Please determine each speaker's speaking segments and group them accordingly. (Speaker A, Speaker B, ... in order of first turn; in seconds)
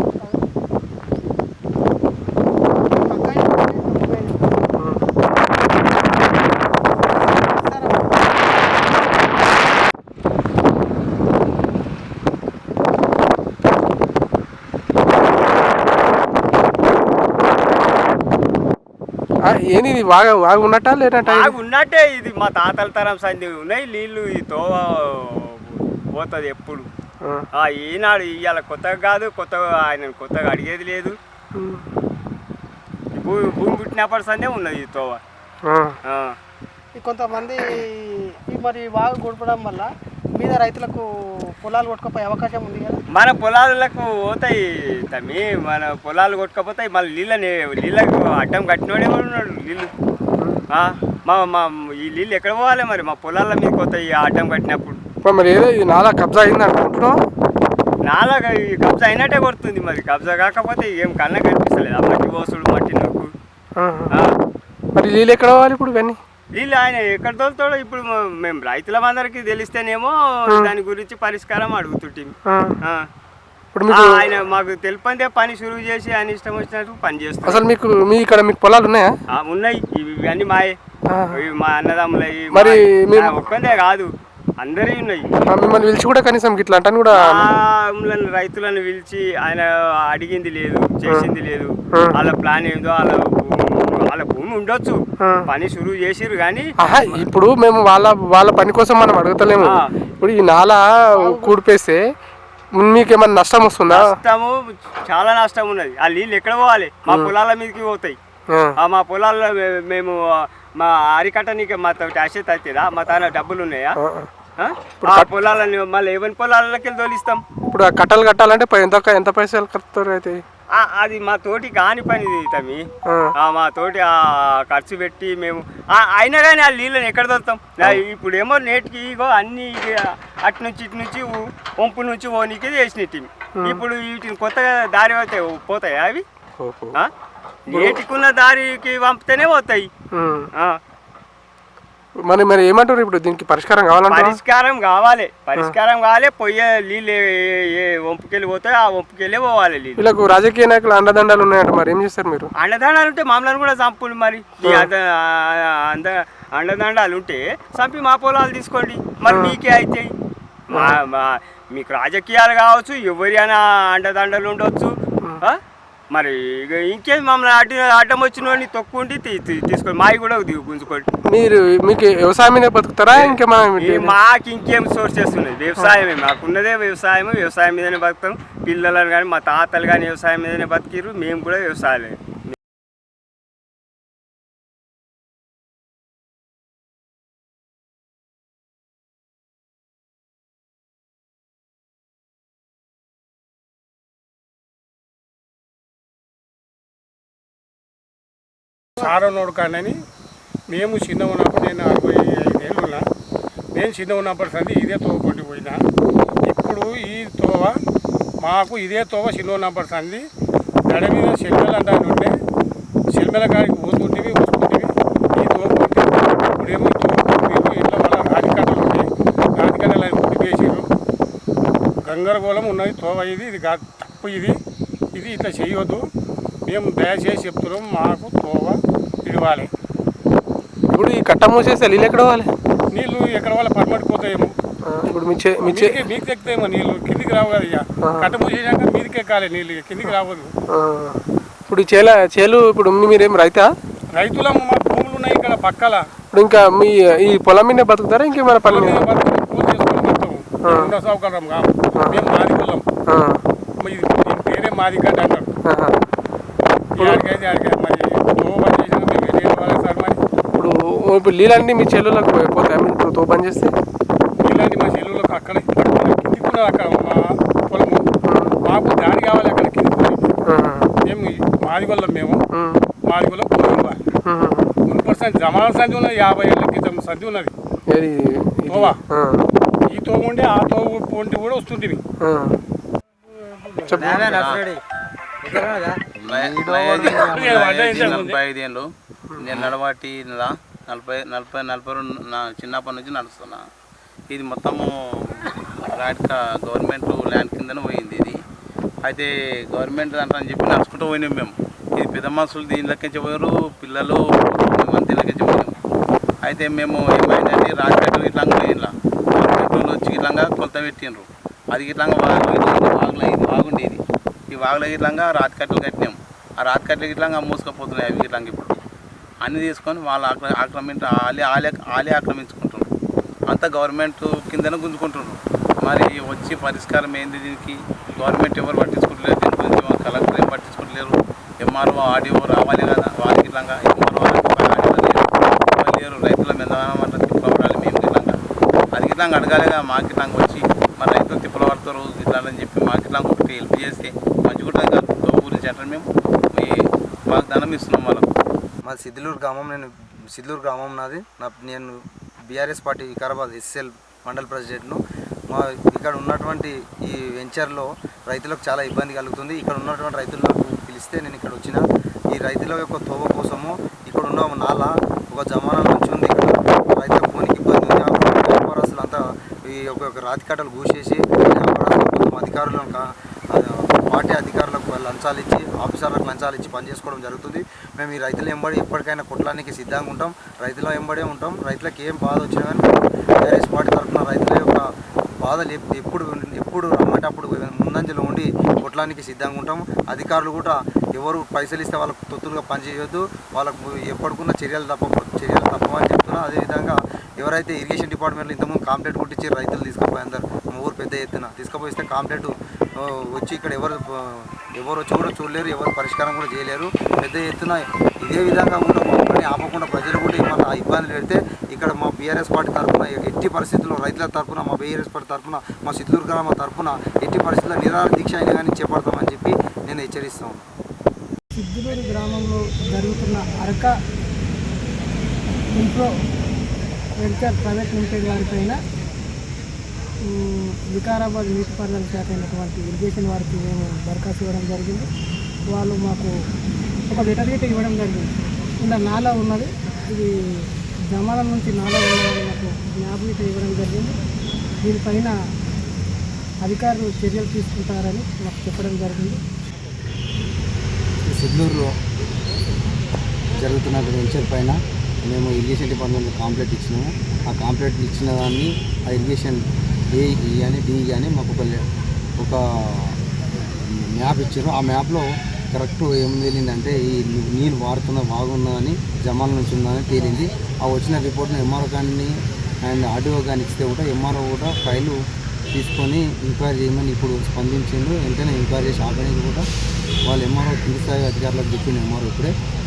Speaker A: 2.9-4.7, 7.2-8.5, 37.0-37.8, 38.5-41.0, 41.6-43.0, 421.6-423.9, 425.8-426.1, 427.2-428.8, 430.3-435.1, 435.7-436.3, 437.1-438.2, 438.8-440.3, 441.1-444.1, 444.8-445.3, 446.6-449.4
Speaker B: 4.8-5.0, 19.5-21.5, 31.6-31.9, 35.7-36.0, 55.2-57.1, 63.8-64.1, 65.0-66.2, 72.5-72.8, 73.8-74.3, 77.5-79.1, 81.1-81.4, 82.5-83.3, 85.5-87.5, 96.8-102.0, 102.8-104.1, 114.0-114.3, 115.0-115.3, 117.7-120.4, 133.6-133.8, 136.6-137.0, 137.7-138.0, 140.1-140.5, 142.2-144.4, 150.0-152.5, 159.3-159.5, 171.3-174.1, 230.9-232.5, 234.8-236.0, 238.0-238.3, 240.7-243.7, 246.3-249.1, 250.6-250.9, 251.9-252.2, 253.1-253.4, 255.7-256.0, 257.0-257.2, 260.6-263.7, 268.2-268.5, 270.5-270.9, 272.5-272.8, 274.3-274.7, 277.9-279.5, 282.2-282.6, 283.9-284.3
Speaker C: 21.2-26.9, 27.6-31.2, 33.1-35.2, 36.0-36.4, 43.1-49.9, 50.7-55.0, 58.0-63.3, 66.5-73.0, 73.9-77.7, 79.3-80.8, 81.3-85.2, 87.1-97.2, 101.2-101.6, 103.9-108.2, 108.8-114.0, 114.6-117.4, 120.7-122.8, 123.4-136.2, 137.7-139.9, 144.1-150.1, 152.6-160.1, 160.7-165.6, 166.1-171.1, 173.1-182.5
Speaker D: 199.0-200.0, 200.7-203.1, 203.8-205.8, 206.5-207.8, 208.4-210.2, 210.9-212.3, 213.1-220.9, 222.1-224.6, 225.1-226.1, 226.7-229.7, 232.9-234.5, 235.7-240.5, 244.1-246.1, 248.7-252.8, 253.8-255.5, 256.9-260.2, 264.4-268.1, 268.6-270.3, 271.0-272.4, 273.1-274.0, 274.9-277.5, 278.7-279.0, 279.9-282.0, 283.3-284.5, 287.3-288.4
Speaker E: 284.2-284.6, 286.3-288.9, 289.4-293.6, 294.3-298.4, 299.1-305.8, 306.4-314.0, 314.5-318.8, 319.4-322.9, 323.5-338.4, 338.9-346.8, 347.3-348.3
Speaker F: 286.1-288.1, 348.9-355.0, 355.5-361.8, 362.3-384.9, 385.4-420.7, 451.3-451.9, 453.5-461.8, 462.4-463.2, 463.7-472.3, 472.9-475.2, 475.7-479.6, 480.3-482.5